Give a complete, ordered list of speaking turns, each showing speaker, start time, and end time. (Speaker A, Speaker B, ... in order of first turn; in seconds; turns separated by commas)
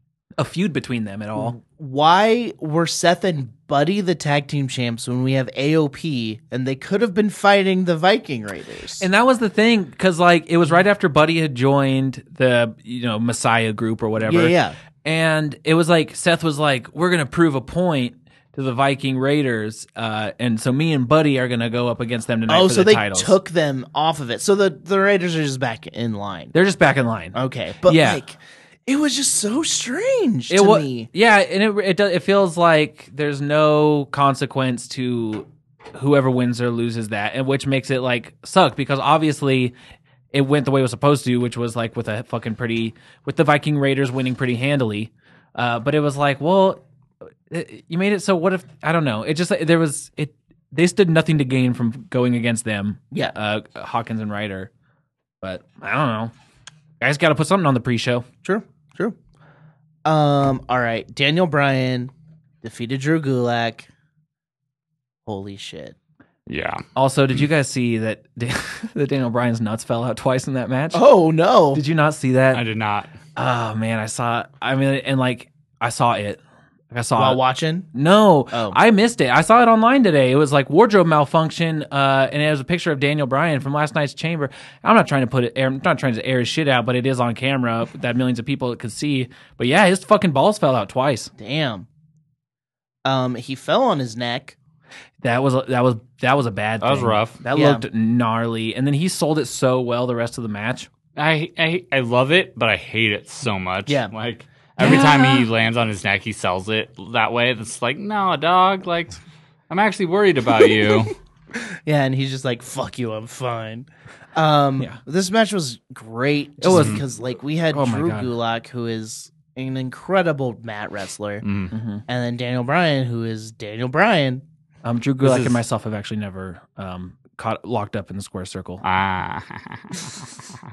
Speaker A: 0.4-1.6, Speaker B: 1.4-9.1, Speaker A: 9.0-23.4, Speaker B: 14.2-14.8, Speaker B: 22.5-26.5, Speaker A: 26.5-28.2, Speaker B: 27.3-31.1, Speaker A: 30.5-39.7, Speaker A: 40.3-46.8, Speaker A: 47.5-54.7, Speaker A: 55.4-56.3, Speaker A: 57.0-58.2, Speaker B: 58.4-59.2, Speaker B: 60.0-62.1, Speaker B: 62.6-63.9, Speaker B: 65.3-66.0, Speaker C: 66.5-66.8, Speaker A: 67.0-71.0, Speaker B: 70.9-71.8, Speaker A: 71.7-72.6, Speaker C: 72.5-73.1, Speaker A: 73.4-76.4, Speaker A: 76.9-77.4, Speaker B: 77.2-77.9, Speaker A: 77.9-91.3, Speaker B: 78.5-78.8, Speaker B: 91.4-91.9, Speaker B: 93.0-94.6, Speaker A: 95.2-100.9, Speaker C: 96.8-97.4, Speaker B: 97.5-97.8, Speaker C: 101.2-109.2, Speaker B: 103.9-104.1, Speaker A: 104.8-105.4, Speaker C: 109.7-111.2, Speaker B: 110.6-121.5, Speaker A: 116.6-117.0, Speaker C: 116.7-117.0, Speaker A: 117.7-118.3, Speaker C: 121.4-121.7, Speaker A: 121.7-122.0, Speaker B: 122.1-124.4, Speaker A: 124.8-128.8, Speaker C: 125.2-125.6, Speaker C: 128.8-130.4